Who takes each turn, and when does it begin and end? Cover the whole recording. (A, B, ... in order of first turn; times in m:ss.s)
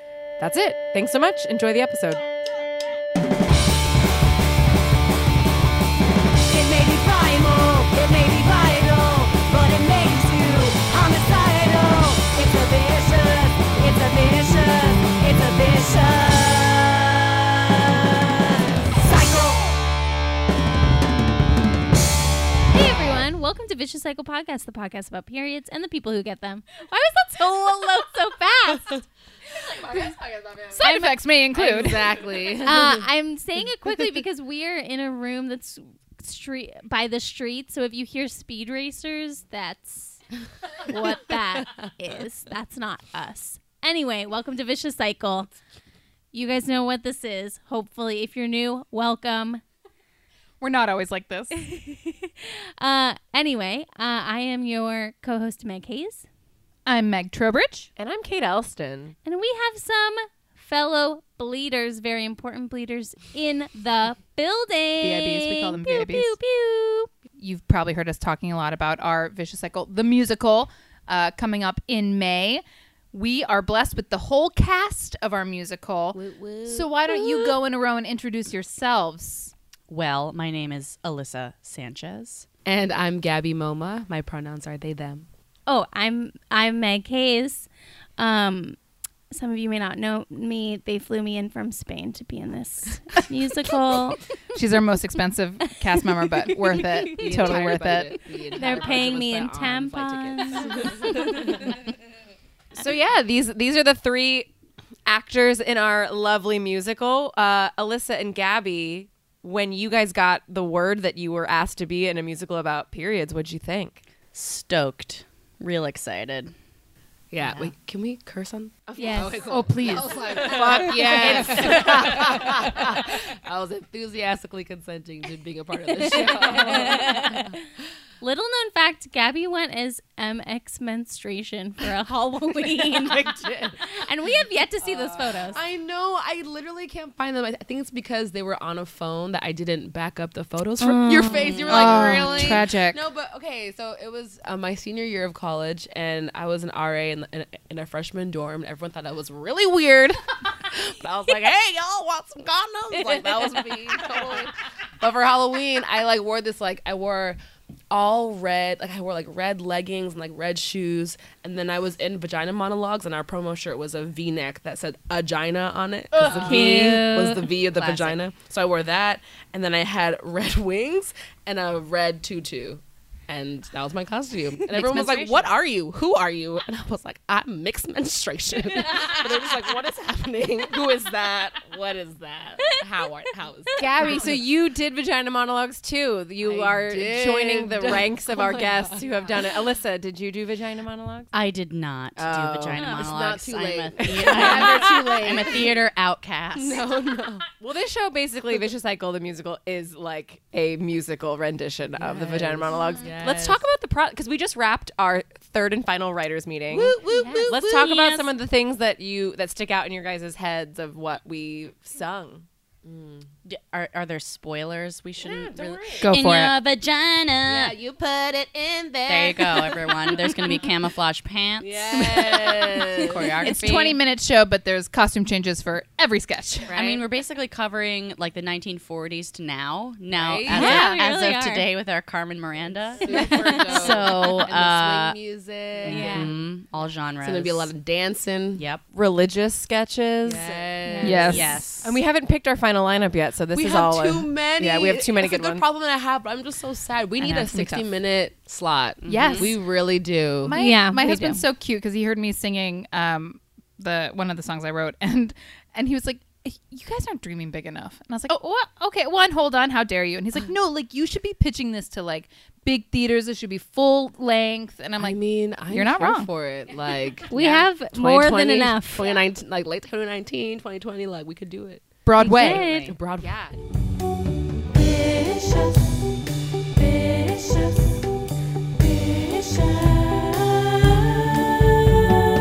0:00.4-0:02.3 A
0:06.5-0:17.9 B
0:18.9-0:19.7 B
0:22.7-0:29.0 C
0:29.8-0:30.1 C
0:30.8-0:31.1 C
0:30.8-0:32.1 D
0:31.5-0:33.0 E
0:32.6-0:40.2 C
0:40.8-0:45.5 C
0:46.3-0:49.6 C
0:50.6-0:51.6 D
0:51.5-0:56.3 C
0:56.9-0:57.9 D
0:58.0-0:59.2 A
0:59.2-1:07.1 C
1:05.0-1:06.4 D
1:07.4-1:19.5 D
1:16.1-1:17.6 E
1:19.9-1:22.5 F
1:22.7-1:25.3 E
1:25.7-1:28.8 C
1:29.3-1:34.3 C
1:34.6-1:38.2 D
1:36.2-1:37.6 C
1:37.1-1:41.7 E
1:38.5-1:41.7 C
1:42.8-1:44.5 A
1:45.1-1:54.0 A
1:54.3-1:56.5 F
1:57.3-2:07.6 E
1:59.0-1:59.4 C
1:59.4-2:00.2 D
2:00.3-2:02.5 A
2:05.9-2:07.6 C
2:08.2-2:15.6 C
2:13.3-2:13.9 E
2:14.8-2:37.4 E
2:20.8-2:22.4 C
2:21.7-2:23.0 D
2:37.9-3:04.3 E
2:46.3-2:47.6 C
2:47.8-2:48.2 F
2:54.7-2:55.5 D
3:03.8-3:11.3 A
3:06.4-3:09.0 E
3:11.3-3:16.8 F
3:12.2-3:12.9 A
3:12.8-3:13.1 C
3:12.8-3:15.8 E
3:16.6-3:17.4 E
3:17.6-3:32.4 A
3:22.0-3:23.6 E
3:26.7-3:27.9 E
3:27.1-3:27.5 C
3:27.6-3:28.3 F
3:32.8-3:33.3 E
3:33.5-3:37.7 F
3:35.2-3:36.1 E
3:36.0-3:36.5 D
3:37.4-3:40.6 E
3:39.1-3:42.4 F
3:41.6-3:43.6 E
3:43.0-3:44.0 F
3:43.1-3:46.8 D
3:46.7-3:47.0 E
3:46.7-3:55.2 F
3:50.1-3:51.0 E
3:50.5-3:51.7 C
3:50.6-3:50.9 D
3:52.9-3:56.5 E
3:53.0-3:54.4 C
3:55.8-3:56.4 C
3:55.8-3:57.7 F
3:57.2-3:58.6 E
3:58.6-3:58.8 F
3:58.9-4:00.7 A
4:00.2-4:01.6 E
4:00.8-4:01.3 C
4:01.0-4:01.6 D
4:01.3-4:02.0 F
4:01.8-4:05.6 A
4:03.5-4:10.6 E
4:07.2-4:07.8 F
4:09.0-4:09.5 F
4:09.1-4:09.6 D
4:10.4-4:26.3 D
4:10.6-4:11.4 C
4:25.0-4:27.3 E
4:27.3-4:29.2 C
4:27.3-4:27.7 D
4:27.9-4:31.9 E
4:32.0-4:32.7 D
4:32.2-4:33.0 C
4:32.2-4:32.9 F
4:32.5-4:33.5 E
4:33.2-4:33.6 A
4:34.7-4:35.9 B
4:36.8-4:38.0 B
4:38.8-4:42.1 B